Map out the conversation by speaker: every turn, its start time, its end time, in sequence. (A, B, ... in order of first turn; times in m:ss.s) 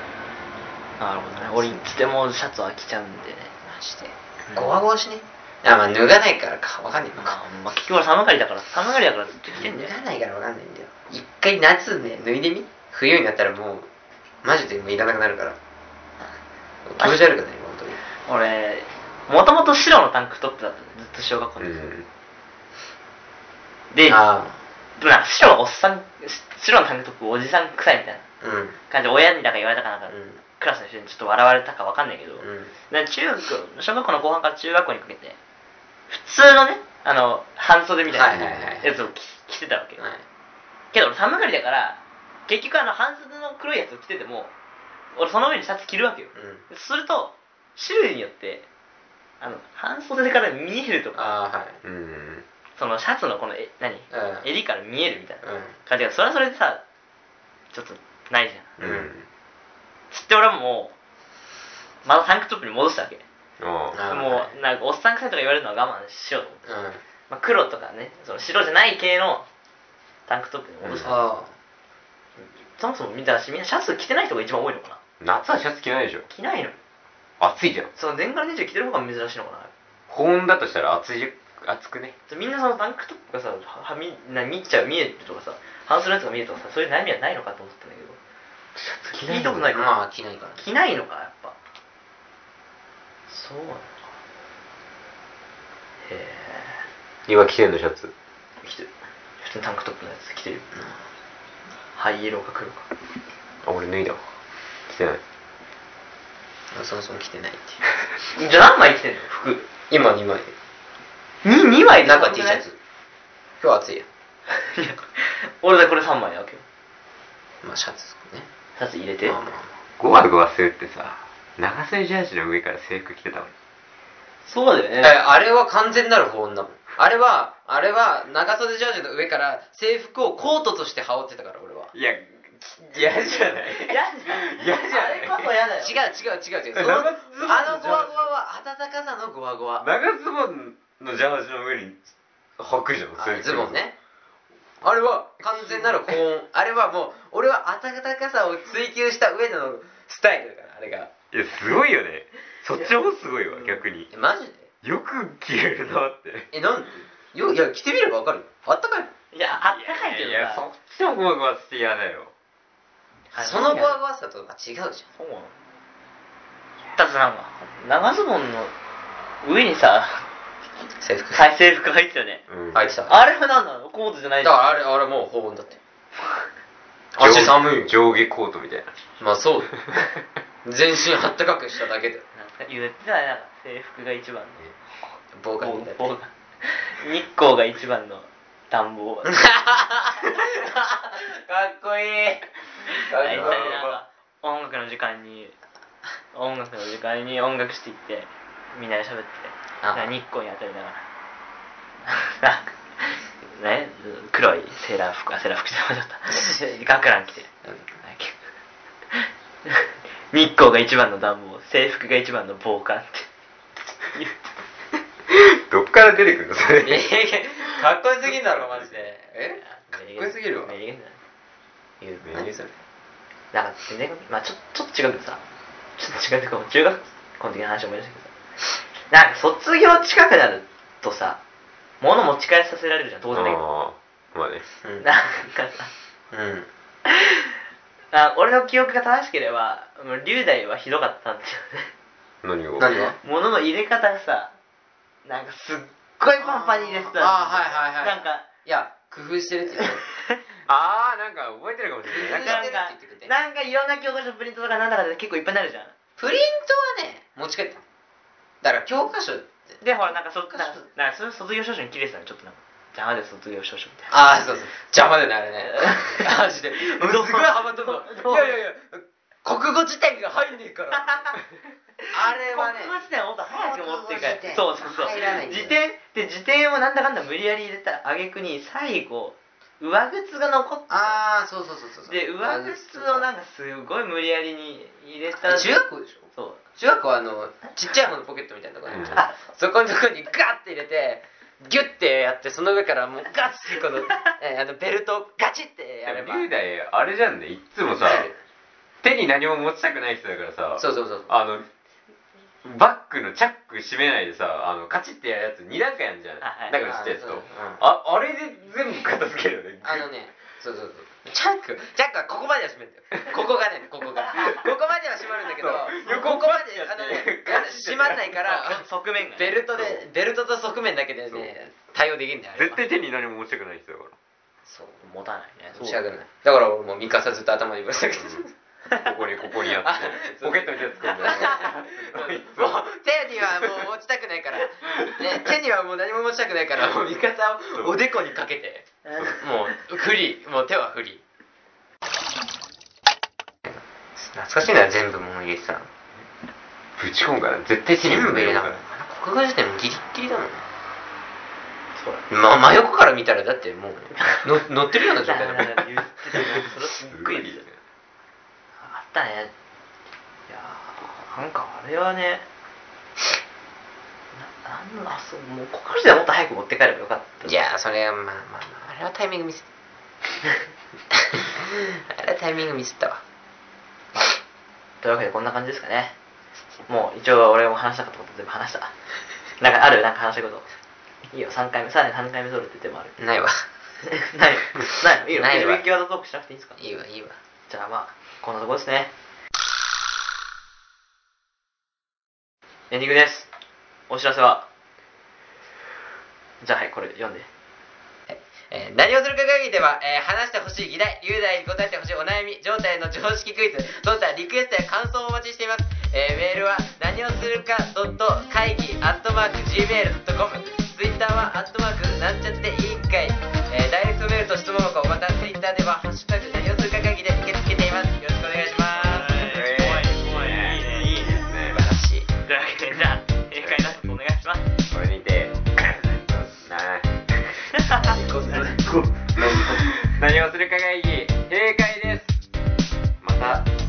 0:01.0-0:03.5 A
0:03.6-0:07.4 B
0:07.2-0:10.0 A
0:09.5-0:13.9 B
0:14.4-0:15.6 B
0:16.8-0:18.0 B
0:18.2-0:21.8 A
0:21.6-0:22.1 C
0:23.9-0:24.2 A
0:24.1-0:24.6 B
0:25.0-0:28.2 A
0:28.4-0:28.8 B
0:28.9-0:35.4 A
0:30.1-0:30.4 B
0:32.4-0:32.7 B
0:36.1-0:40.0 A
0:38.1-0:38.9 B
0:40.0-0:40.2 B
0:40.9-0:44.5 A
0:45.1-0:48.7 A
0:46.3-0:46.6 B
0:49.4-0:51.4 A
0:51.1-0:51.8 B
0:51.8-0:52.4 C
0:52.8-0:56.8 A
0:54.1-0:54.4 B
0:55.4-0:55.7 B
0:57.7-0:58.7 A
0:58.8-0:59.1 B
0:58.8-0:59.3 C
1:00.1-1:00.9 A
1:02.0-1:03.2 A
1:03.6-1:04.0 C
1:03.9-1:04.5 B
1:04.0-1:06.7 A
1:06.6-1:07.0 B
1:07.3-1:09.4 A
1:10.3-1:11.2 A
1:10.8-1:11.1 C
1:11.0-1:11.5 B
1:12.4-1:15.0 A
1:15.2-1:16.3 C
1:16.3-1:16.8 A
1:17.4-1:17.9 C
1:17.9-1:19.7 A
1:20.1-1:22.2 C
1:22.3-1:28.2 A
1:28.8-1:29.6 C
1:29.1-1:30.0 A
1:29.7-1:30.6 B
1:30.6-1:31.6 A
1:33.3-1:33.9 A
1:36.0-1:36.8 A
1:37.3-1:38.1 C
1:38.6-1:40.6 A
1:41.9-1:42.9 A
1:43.6-1:44.2 C
1:44.9-1:45.2 C
1:46.7-1:47.8 B
1:48.3-1:49.6 A
1:49.9-1:50.5 B
1:51.4-1:52.6 A
1:52.0-1:52.8 B
1:53.6-1:54.0 B
1:54.5-1:56.6 A
1:57.6-1:58.5 B
1:58.8-1:59.4 A
1:59.2-1:59.7 B
2:00.0-2:03.5 C
2:04.4-2:05.2 A
2:05.0-2:11.9 B
2:11.9-2:15.5 C
2:13.8-2:16.0 A
2:15.8-2:19.9 B
2:16.7-2:18.3 C
2:19.8-2:22.0 C
2:22.6-2:23.8 C
2:23.2-2:24.0 B
2:24.8-2:31.1 B
2:31.3-2:34.1 C
2:33.5-2:34.7 B
2:34.8-2:36.5 C
2:36.5-2:39.1 B
2:39.3-2:40.6 A
2:39.7-2:42.3 C
2:43.3-2:44.0 A
2:43.4-2:45.0 B
2:45.2-2:45.5 A
2:47.0-2:48.7 A
2:49.4-2:50.2 A
2:51.0-2:51.4 B
2:51.3-2:52.4 A
2:52.5-2:52.8 C
2:52.7-2:53.2 B
2:53.1-2:54.6 A
2:54.4-2:55.8 B
2:57.1-2:57.9 B
2:57.2-2:58.9 C
2:59.2-2:59.8 B
3:00.6-3:02.2 B
3:02.3-3:04.6 A
3:05.3-3:06.1 B
3:05.6-3:09.7 A
3:09.3-3:13.8 B
3:12.9-3:15.5 A
3:13.1-3:14.0 C
3:16.3-3:21.0 A
3:19.8-3:20.1 B
3:22.0-3:28.4 A
3:29.1-3:33.3 A
3:35.3-3:39.0 C
3:36.8-3:40.7 B
3:39.6-3:41.2 A
3:42.0-3:42.8 B
3:42.2-3:42.5 C
3:43.5-3:45.4 A
3:46.0-3:48.3 A
3:49.1-3:51.4 A
3:52.0-3:53.6 A
3:53.3-3:54.6 C
3:55.0-3:55.9 A
3:56.3-3:56.7 B
3:57.1-3:57.5 A
3:58.1-4:01.9 A
4:02.4-4:02.9 C
4:02.8-4:03.2 B
4:03.2-4:04.5 A
4:05.2-4:08.4 A
4:06.4-4:10.0 B
4:09.8-4:10.4 A
4:10.7-4:12.7 C
4:12.1-4:13.3 B
4:12.2-4:15.9 A
4:16.2-4:17.8 B
4:18.6-4:19.5 B
4:19.8-4:24.1 A
4:24.1-4:31.4 B
4:25.6-4:28.5 A
4:31.0-4:31.3 A
4:32.0-4:41.2 A
4:32.1-4:33.0 B
4:33.5-4:35.8 B
4:40.9-4:43.3 B
4:42.1-4:46.6 A
4:45.4-4:56.5 B
4:48.9-4:49.3 C
4:56.0-4:58.3 C
4:57.9-4:58.3 B
4:59.0-5:01.6 C
5:00.8-5:01.3 B
5:02.6-5:10.0 C
5:06.4-5:06.7 A
5:06.8-5:07.8 B
5:09.8-5:18.8 B
5:15.4-5:18.3 C
5:16.0-5:16.5 A
5:18.3-5:19.7 A
5:19.4-5:22.8 B
5:22.6-5:24.1 C
5:24.6-5:25.0 B
5:25.0-5:26.0 A
5:25.7-5:28.5 B
5:28.2-5:32.8 C
5:29.6-5:41.2 B
5:33.4-5:33.8 C
5:39.1-5:39.4 A
5:43.6-5:45.9 B
5:47.0-5:48.8 C
5:48.0-5:50.6 B
5:51.9-5:52.2 A
5:52.3-5:55.9 B
5:54.1-5:57.6 A
5:57.0-5:57.8 C
5:58.8-5:59.5 A
6:00.5-6:02.4 A
6:04.3-6:07.5 A
6:07.4-6:09.6 B
6:11.1-6:13.2 B
6:15.0-6:16.1 A
6:16.9-6:18.9 A
6:19.6-6:20.7 A
6:21.3-6:23.1 A
6:23.2-6:23.6 B
6:24.0-6:26.8 A
6:25.3-6:25.8 B
6:26.8-6:27.4 B
6:27.7-6:29.1 A
6:32.9-6:33.5 A
6:34.1-6:34.7 A
6:36.6-6:37.5 A
6:38.3-6:59.3 B
6:59.0-7:01.4 A
6:59.4-7:01.8 C
7:01.1-7:02.3 B
7:02.4-7:04.7 A
7:03.6-7:04.0 C
7:04.9-7:07.6 C
7:07.8-7:08.1 A
7:07.9-7:09.9 B
7:09.4-7:12.4 C
7:13.2-7:13.7 C